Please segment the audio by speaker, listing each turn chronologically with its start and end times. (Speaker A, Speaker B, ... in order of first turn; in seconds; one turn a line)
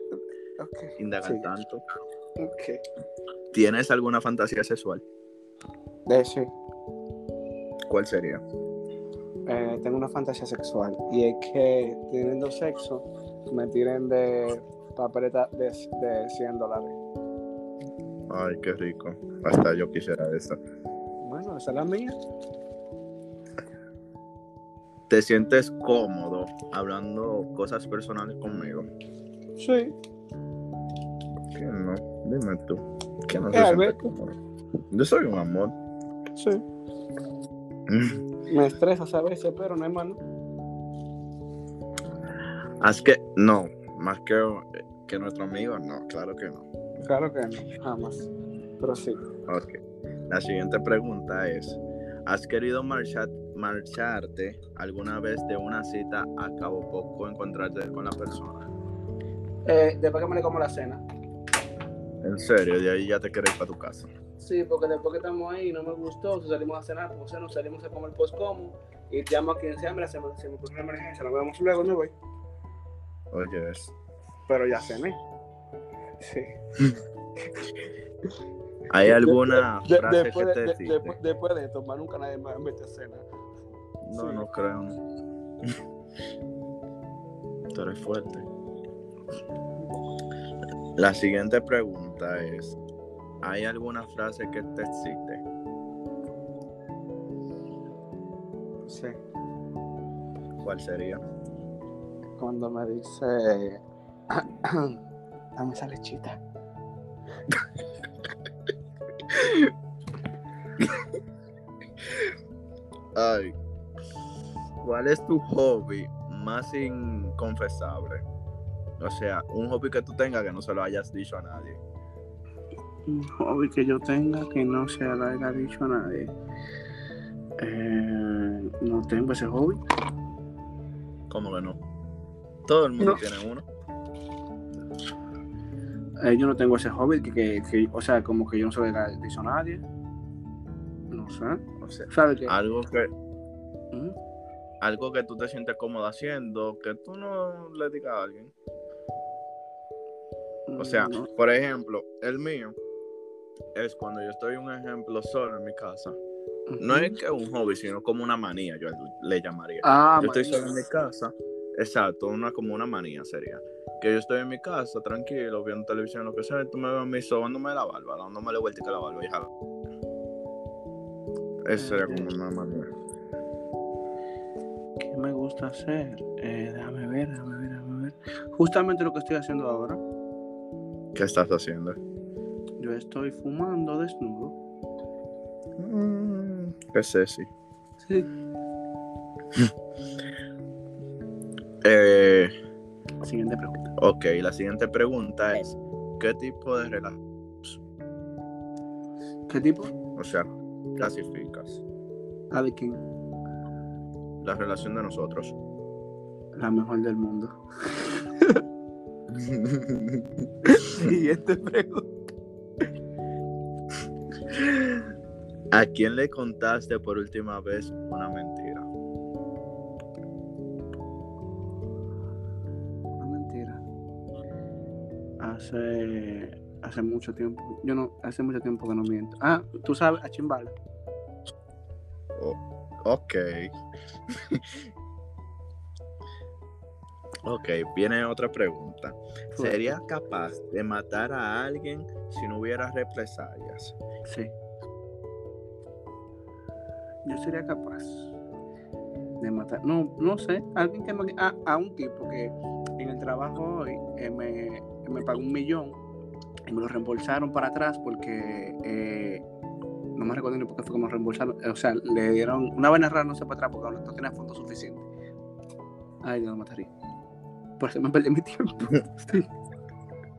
Speaker A: 0.6-1.5
Speaker B: 1.0-1.8
Speaker A: 2.4-2.8
Speaker B: 3.5-5.0
Speaker A: 6.1-6.5
Speaker B: 7.9-8.4
Speaker A: 9.5-17.0
Speaker B: 18.3-20.6
Speaker A: 21.2-22.2
Speaker B: 25.1-28.9
Speaker A: 29.6-29.9
Speaker B: 31.5-34.4
Speaker A: 33.5-34.0
Speaker B: 34.9-35.8
Speaker A: 36.4-36.6
Speaker B: 37.9-38.2
Speaker A: 38.5-40.2
Speaker B: 42.8-46.6
Speaker A: 47.0-49.2
Speaker B: 49.5-58.7
Speaker A: 59.7-61.0
Speaker B: 62.2-64.1
Speaker A: 64.4-72.1
Speaker B: 73.3-73.9
Speaker A: 74.5-75.2
Speaker A: 76.2-76.5
Speaker B: 78.9-81.2
Speaker A: 79.1-83.3
Speaker B: 84.0-85.0
Speaker A: 84.1-84.5
Speaker B: 87.8-88.5
Speaker B: 91.0-92.8
Speaker B: 93.4-95.4
Speaker A: 98.9-99.2
Speaker B: 100.6-101.2
Speaker A: 102.4-105.0
Speaker A: 105.6-106.4
Speaker B: 109.4-109.6
Speaker B: 113.2-113.5
Speaker B: 114.8-118.2
Speaker B: 119.0-121.8
Speaker A: 123.1-126.3
Speaker A: 127.6-129.8
Speaker B: 131.3-131.8
Speaker B: 132.7-133.7
Speaker A: 136.2-139.9
Speaker A: 141.1-142.6
Speaker B: 141.8-143.1
Speaker B: 144.8-148.5
Speaker A: 150.7-151.3
Speaker B: 150.8-152.8
Speaker B: 153.8-156.2
Speaker A: 156.7-157.2
Speaker B: 156.8-169.5
Speaker A: 159.8-160.8
Speaker B: 171.7-172.9
Speaker A: 171.8-172.3
Speaker A: 175.0-180.0
Speaker B: 181.2-182.0
Speaker A: 182.8-184.6
Speaker B: 185.8-187.5
Speaker A: 188.0-188.3
Speaker B: 191.8-192.5
Speaker A: 193.2-193.9
Speaker B: 194.0-197.8
Speaker A: 199.5-199.9
Speaker B: 200.2-201.8
Speaker A: 202.5-203.0
Speaker B: 204.4-205.6
Speaker A: 206.6-208.6
Speaker B: 209.3-210.3
Speaker A: 210.7-212.1
Speaker B: 215.7-218.9
Speaker A: 223.2-223.8
Speaker A: 225.4-230.8
Speaker B: 232.3-233.7
Speaker B: 234.3-234.9
Speaker B: 237.4-243.9
Speaker A: 239.6-240.0
Speaker A: 244.2-244.5
Speaker A: 247.2-248.3
Speaker A: 249.4-256.0
Speaker A: 256.7-259.4
Speaker A: 260.2-265.1
Speaker A: 266.2-266.9
Speaker A: 267.8-269.5